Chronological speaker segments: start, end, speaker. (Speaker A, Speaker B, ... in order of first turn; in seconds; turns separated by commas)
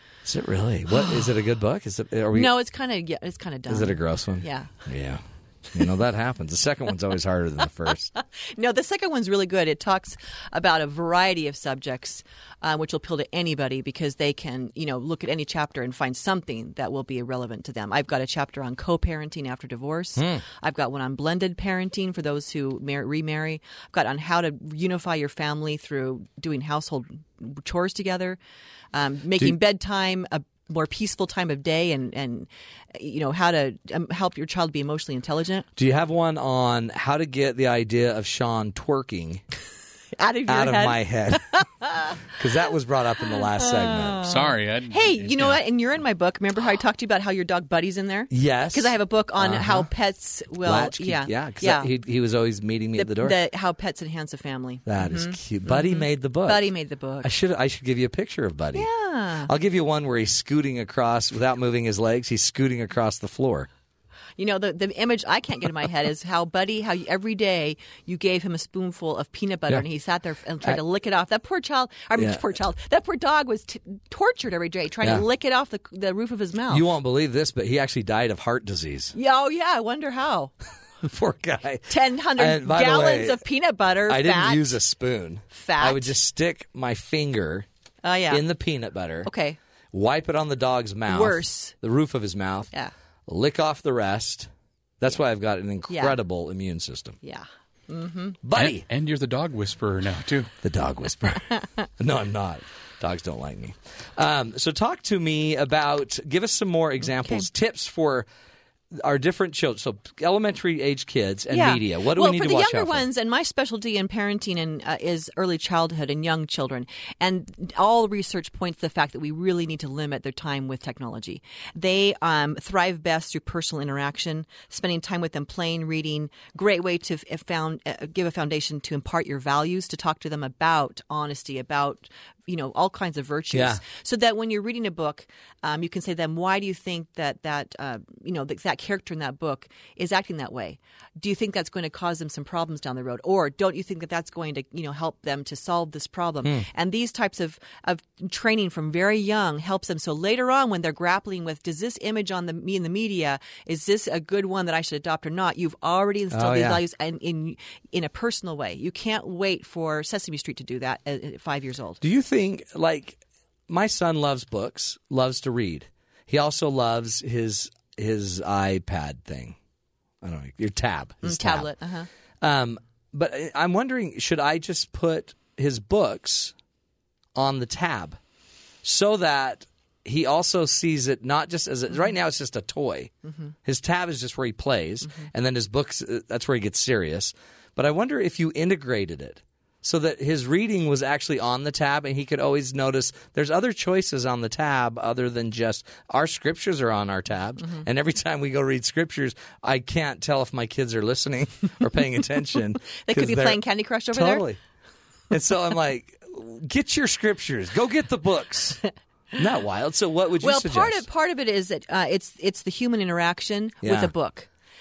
Speaker A: 0.2-2.5, Speaker B: 2.3-4.7, Speaker A: 3.7-8.1, Speaker B: 8.2-28.4, Speaker A: 20.2-20.4, Speaker B: 28.9-35.7, Speaker A: 35.8-39.4, Speaker B: 40.2-42.2, Speaker A: 40.5-41.6, Speaker A: 42.3-44.3, Speaker B: 43.4-51.9, Speaker C: 44.3-45.6, Speaker A: 48.3-49.9, Speaker A: 50.6-53.4, Speaker B: 53.0-57.3, Speaker A: 54.9-56.7, Speaker A: 57.2-58.9, Speaker B: 58.8-59.5, Speaker A: 59.5-63.7, Speaker B: 64.4-76.8, Speaker A: 72.2-72.4, Speaker A: 76.7-79.2, Speaker B: 79.1-80.5, Speaker A: 81.0-83.4, Speaker B: 81.9-84.8, Speaker A: 84.1-87.7, Speaker B: 85.5-86.1, Speaker B: 88.0-88.4, Speaker A: 88.3-89.3, Speaker B: 89.2-89.6, Speaker A: 89.9-92.7, Speaker B: 91.1-91.8, Speaker A: 93.3-97.2, Speaker B: 95.9-96.2, Speaker B: 97.2-98.4, Speaker A: 98.4-98.9, Speaker C: 98.6-100.5, Speaker A: 100.6-108.3, Speaker A: 108.9-113.1, Speaker B: 111.5-162.0, Speaker A: 133.5-133.8, Speaker A: 156.3-156.8, Speaker A: 162.0-169.6, Speaker A: 170.2-171.7, Speaker B: 171.2-172.1, Speaker A: 172.4-176.5, Speaker A: 177.3-178.2, Speaker A: 178.8-183.1, Speaker A: 183.6-204.6, Speaker B: 203.0-204.5, Speaker A: 205.3-208.8, Speaker A: 209.4-211.1, Speaker B: 210.4-214.5, Speaker A: 213.8-214.1